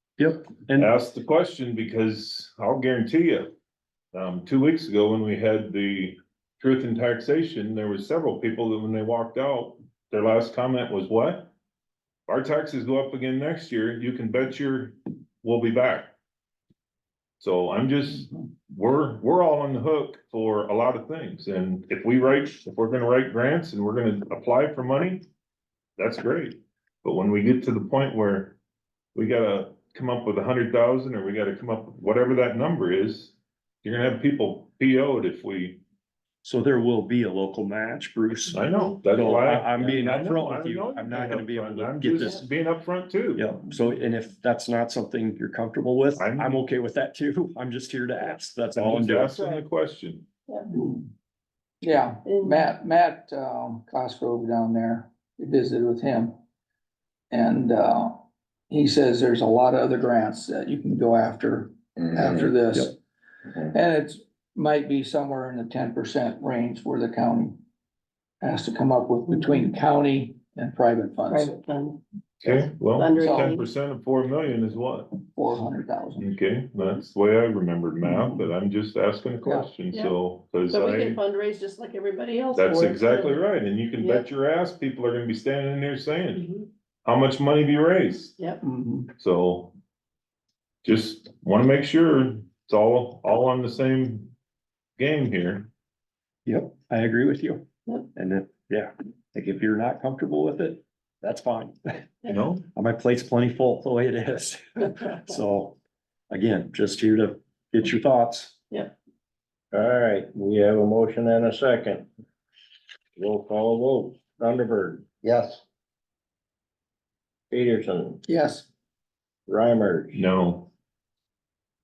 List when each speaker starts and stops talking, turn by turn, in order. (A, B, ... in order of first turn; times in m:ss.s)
0:00.2-0:00.9 A
0:00.8-0:03.5 B
0:04.1-0:11.5 B
0:12.3-0:16.1 B
0:17.4-0:25.2 B
0:26.0-0:28.6 B
0:29.1-0:35.8 B
0:36.4-0:42.4 A
0:38.5-0:43.4 B
0:43.3-0:49.3 A
0:46.2-0:46.6 B
0:48.8-0:50.3 B
0:49.3-0:49.6 C
0:50.8-0:51.0 D
0:51.8-0:56.3 D
0:52.2-0:52.7 C
0:57.3-1:03.0 D
1:03.6-1:07.6 D
1:08.4-1:11.5 D
1:11.2-1:12.0 C
1:12.4-1:15.2 B
1:12.9-1:13.7 C
1:13.2-1:13.6 D
1:15.3-1:16.3 D
1:16.2-1:21.2 B
1:18.0-1:18.5 D
1:19.4-1:19.8 D
1:19.9-1:20.1 C
1:20.7-1:23.4 C
1:22.5-1:26.4 B
1:24.0-1:24.3 C
1:26.3-1:26.7 C
1:27.0-1:28.4 B
1:28.4-1:28.6 C
1:28.6-1:29.1 D
1:29.2-1:29.7 B
1:30.8-1:34.3 B
1:35.0-1:35.7 B
1:36.4-1:42.1 A
1:42.3-1:42.6 B
1:42.7-1:45.8 A
1:46.3-1:48.6 A
1:49.7-1:52.1 E
1:53.2-1:55.6 E
1:57.5-1:58.2 E
1:58.2-1:58.7 D
1:59.5-2:00.2 E
2:00.1-2:00.7 B